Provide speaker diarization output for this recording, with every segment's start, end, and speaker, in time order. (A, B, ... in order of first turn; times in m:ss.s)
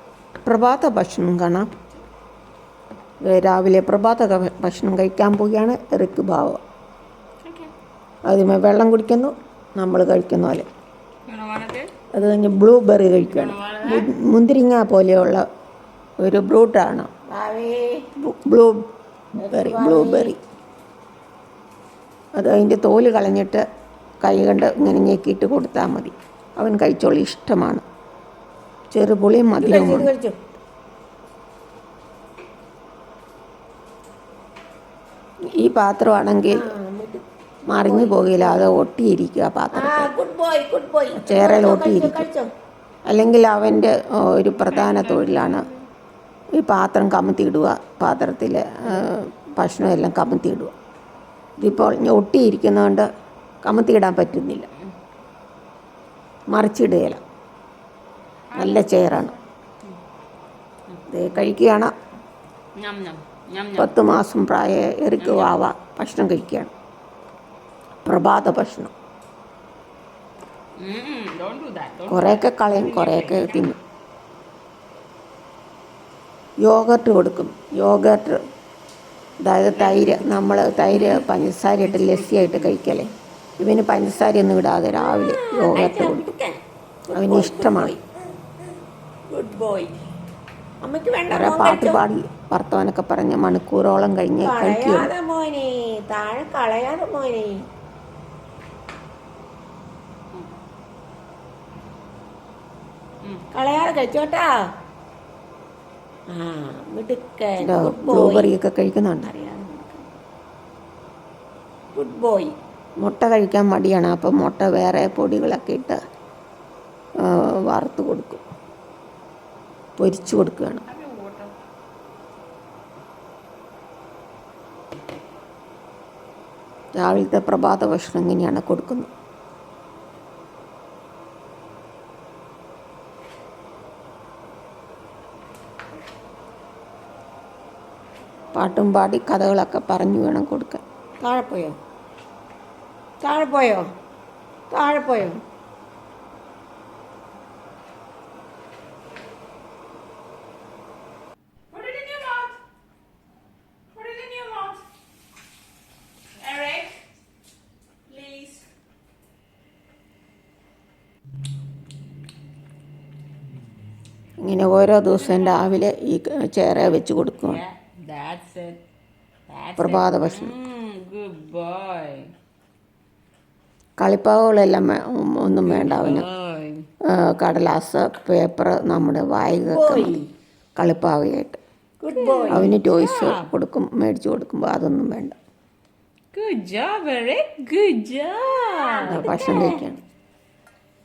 0:00.4-0:01.7 A
0:03.2-0:06.6 A
0:07.4-0:07.7 B
0:08.3-0:10.7 A
0:11.3-0:11.9 B
0:12.1-0:15.5 A
0:13.3-0:14.1 B
0:16.2-0:17.1 A
0:17.3-0:18.1 C
0:18.2-0:18.9 A
0:19.4-0:20.4 C
0:19.4-0:20.4 A
0:22.4-0:23.6 A
0:24.2-0:27.8 A
0:28.9-0:30.1 A
0:29.6-0:30.4 C
0:35.6-0:36.7 A
0:36.5-0:38.7 C
0:37.7-0:40.1 A
0:39.7-0:42.5 C
0:41.2-0:42.3 A
0:43.1-0:45.7 A
0:44.7-0:45.8 B
0:46.6-0:50.7 A
0:51.6-0:53.1 A
0:53.6-0:54.7 A
0:56.5-0:57.2 A
0:58.5-1:00.0 B
0:58.5-0:59.4 A
1:01.1-1:01.9 A
1:02.8-1:04.0 B
1:03.8-1:06.7 A
1:05.2-1:05.7 B
1:08.0-1:08.9 A
1:10.8-1:13.8 B
1:12.1-1:13.8 A
1:16.6-1:18.4 A
1:19.4-1:26.3 A
1:19.9-1:22.8 B
1:25.0-1:28.0 C
1:27.1-1:27.9 A
1:29.3-1:29.9 C
1:30.8-1:32.0 C
1:31.3-1:35.1 A
1:34.4-1:37.6 C
1:43.5-1:44.6 C
1:46.3-1:48.5 C
1:47.6-1:50.0 A
1:51.9-1:52.6 C
1:53.0-1:56.0 A
1:57.2-1:58.4 A
2:00.0-2:00.9 A
2:00.9-2:01.6 B
2:07.0-2:09.1 A
2:18.5-2:20.8 A
2:21.2-2:21.8 C
2:23.2-2:23.9 C
2:24.7-2:25.4 C
2:31.7-2:32.6 B
2:33.9-2:34.8 B
2:36.4-2:37.1 B
2:38.1-2:38.7 B
2:44.4-2:47.6 A
2:45.1-2:45.7 B
2:47.4-2:48.8 B
2:49.5-2:52.3 B
2:49.8-2:50.5 A
2:54.0-2:56.3 A
2:55.6-2:56.9 B
2:57.0-3:00.2 A
2:59.7-3:00.3 C
3:00.8-3:01.6 A
3:02.0-3:02.8 C
3:02.1-3:03.5 B
3:02.5-3:05.4 A
3:06.3-3:09.8 B
3:09.0-3:10.0 A